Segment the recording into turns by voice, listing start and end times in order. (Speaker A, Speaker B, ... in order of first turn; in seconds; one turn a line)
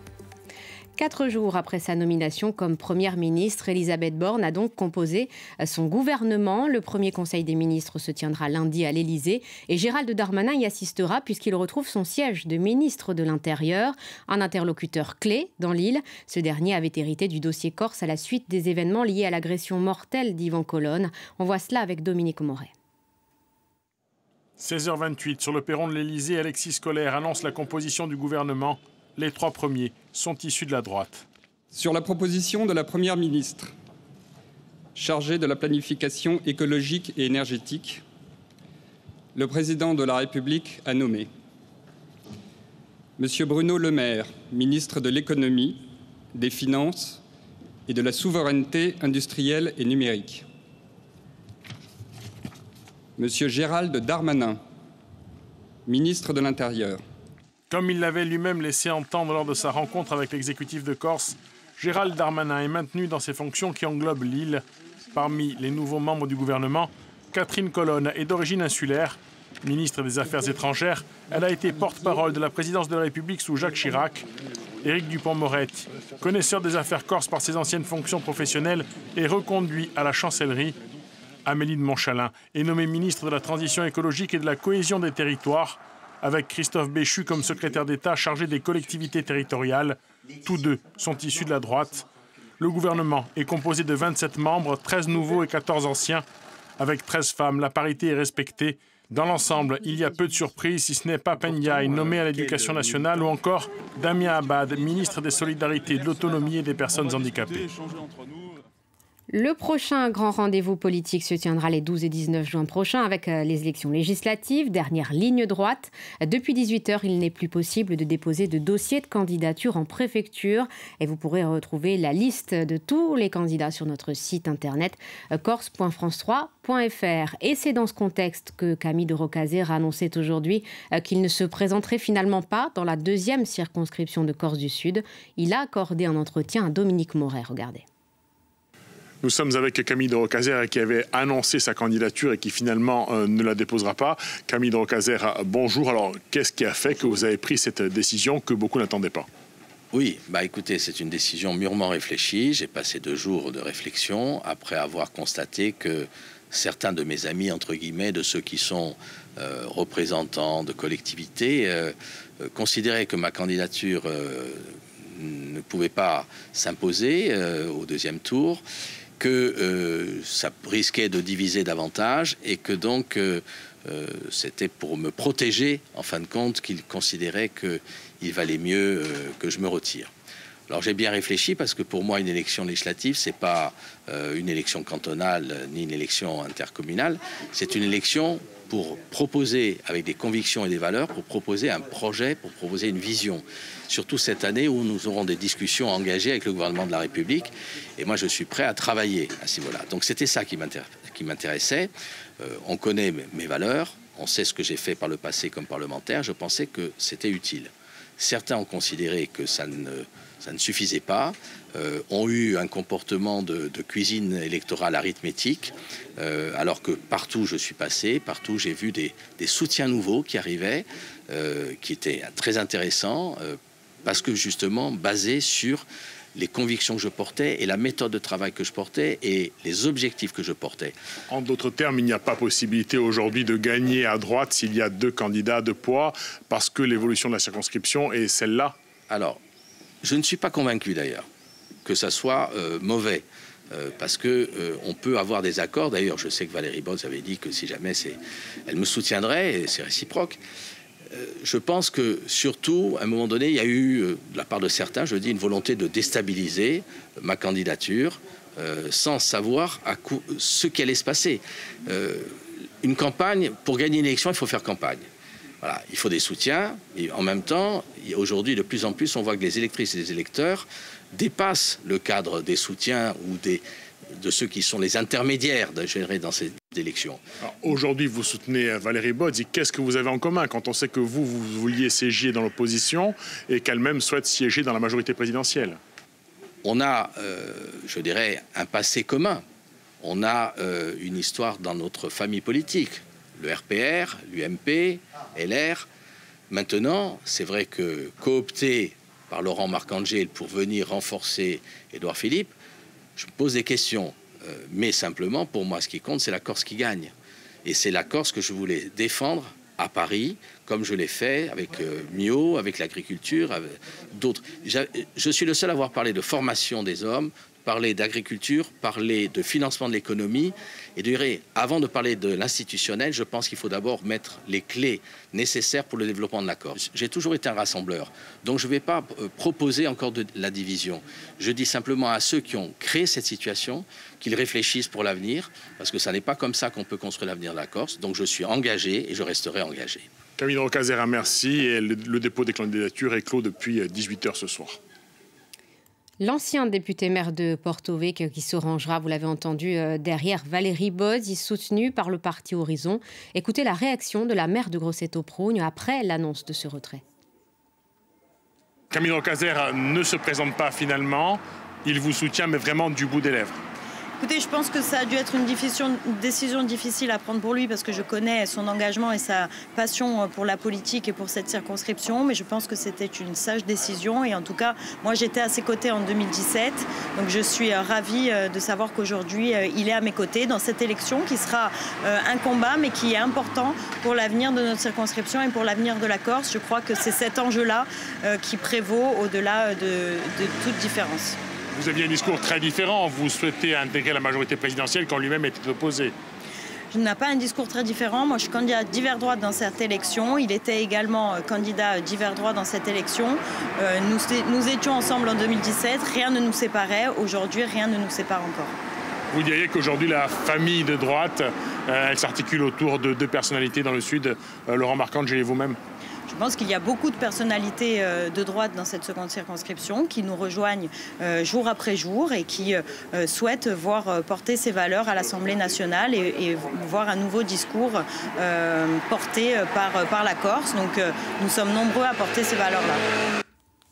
Speaker A: 1.0-22.7
Speaker B: 24.6-31.2
Speaker C: 31.7-33.7
Speaker C: 35.0-38.0
Speaker C: 39.4-41.3
Speaker C: 43.2-47.2
Speaker C: 47.9-50.5
Speaker C: 53.2-54.6
Speaker C: 55.9-57.0
Speaker B: 57.7-64.6
Speaker B: 65.1-74.2
Speaker B: 74.8-80.8
Speaker B: 81.5-92.0
Speaker B: 92.6-96.2
Speaker B: 96.8-107.6
Speaker A: 109.3-137.8
Speaker B: 139.2-149.3
Speaker D: 149.9-168.6
Speaker D: 169.2-180.1
Speaker D: 180.7-225.8
Speaker D: 226.4-230.9
Speaker B: 231.3-238.8
Speaker D: 239.1-239.4
Speaker D: 240.0-241.3
Speaker D: 241.8-250.4
Speaker D: 251.1-262.3
Speaker D: 262.8-265.0
Speaker D: 265.6-273.6
Speaker D: 274.2-277.2
Speaker B: 277.6-285.8
Speaker D: 286.6-289.4
Speaker D: 290.0-295.9
Speaker D: 296.5-302.5
Speaker D: 303.2-307.1
Speaker D: 307.6-340.1
Speaker B: 340.4-344.8
Speaker A: 346.2-357.0
Speaker B: 358.9-363.6
Speaker E: 364.2-391.4
Speaker B: 391.7-396.1
Speaker E: 396.9-408.7
Speaker B: 409.3-415.8
Speaker E: 416.3-433.0